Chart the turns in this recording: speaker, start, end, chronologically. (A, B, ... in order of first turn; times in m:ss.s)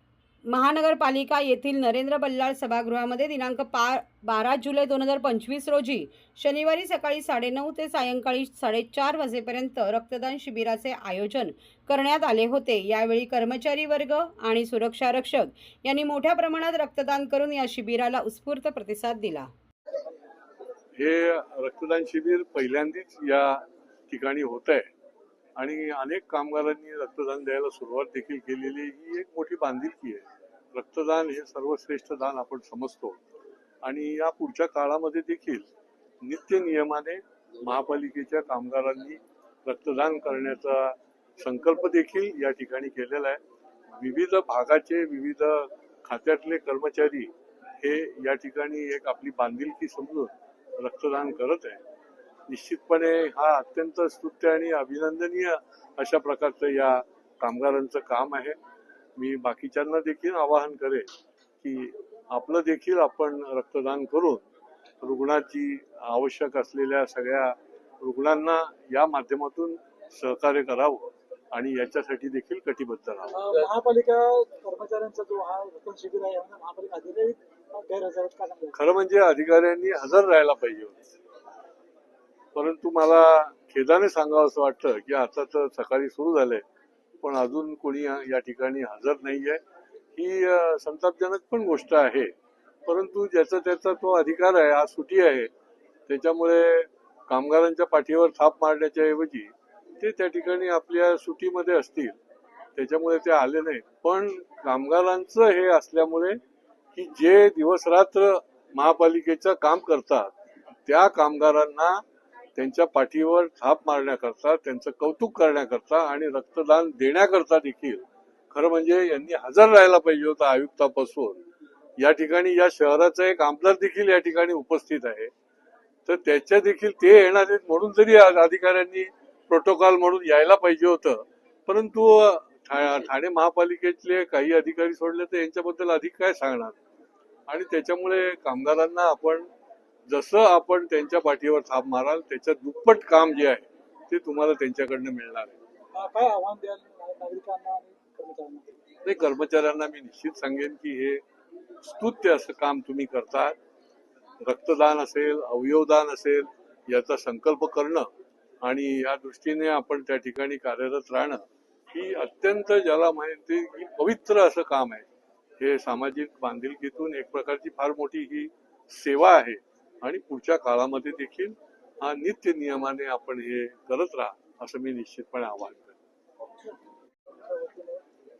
0:00.5-0:19.5 A
0:21.0-0:24.9 B
0:25.6-0:33.2 B
0:33.8-0:35.7 B
0:36.2-0:43.4 B
0:44.0-0:47.3 B
0:47.8-0:51.8 B
0:52.5-0:58.6 B
0:59.2-1:01.1 B
1:01.6-1:04.4 B
1:05.0-1:13.7 B
1:13.3-1:18.8 C
1:18.7-1:21.0 B
1:22.6-1:26.6 B
1:27.2-1:29.6 B
1:30.2-1:32.3 B
1:32.9-1:35.5 B
1:36.1-1:42.2 B
1:42.8-1:46.4 B
1:47.0-1:50.3 B
1:50.9-1:52.0 B
1:52.6-2:01.4 B
2:02.0-2:05.3 B
2:06.1-2:16.8 B
2:17.5-2:19.5 B
2:20.1-2:25.6 B
2:25.9-2:28.8 C
2:29.0-2:31.2 B
2:31.8-2:33.6 B
2:34.4-2:38.1 B
2:38.6-2:45.1 B
2:45.6-2:56.0 B
2:57.4-2:58.0 C